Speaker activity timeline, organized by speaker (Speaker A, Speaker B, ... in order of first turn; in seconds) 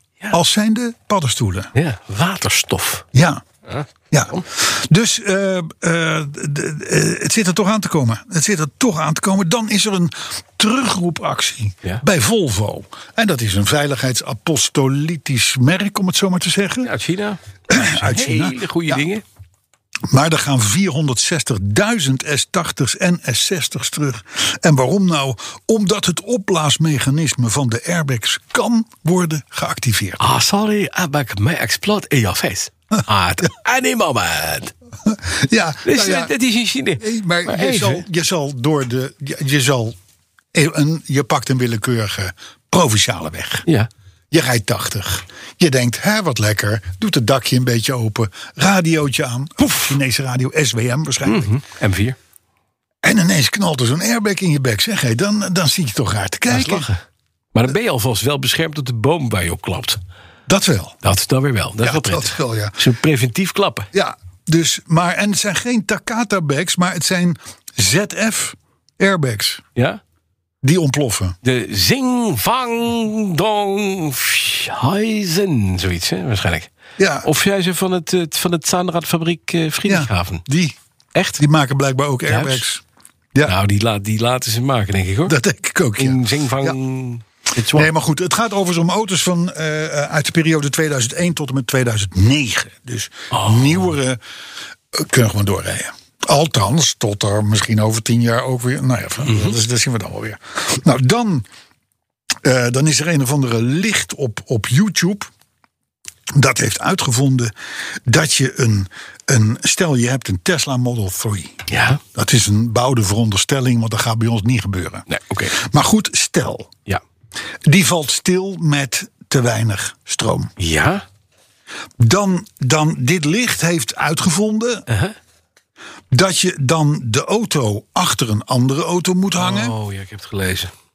Speaker A: 0.3-1.7, 3.1-3.4, 4.1-16.9, 17.7-19.0, 20.1-30.2, 35.0-36.3, 37.0-40.0, 40.5-43.6, 44.3-51.6, 53.0-56.9, 60.5-61.0, 61.8-62.8, 63.9-69.6, 70.6-71.4, 77.0-77.3, 79.8-80.8, 81.4-82.8, 85.3-86.8, 87.7-94.2, 94.9-101.5, 102.4-105.3, 106.3-107.5, 108.0-111.6, 112.1-116.7, 117.6-120.5, 122.0-124.8, 126.1-129.7
Speaker B: 1.7-3.0, 3.6-4.4, 16.8-19.2, 30.2-34.7, 35.8-38.0, 49.6-49.9, 51.2-52.1, 56.5-57.0, 57.5-60.0, 61.0-63.9, 71.4-76.7, 77.2-80.4, 81.1-81.4, 82.3-82.6, 83.4-85.3, 86.0-87.9, 93.3-93.9, 99.2-99.5, 111.7-112.0, 115.1-115.5, 120.6-121.0, 124.9-125.1, 129.4-130.7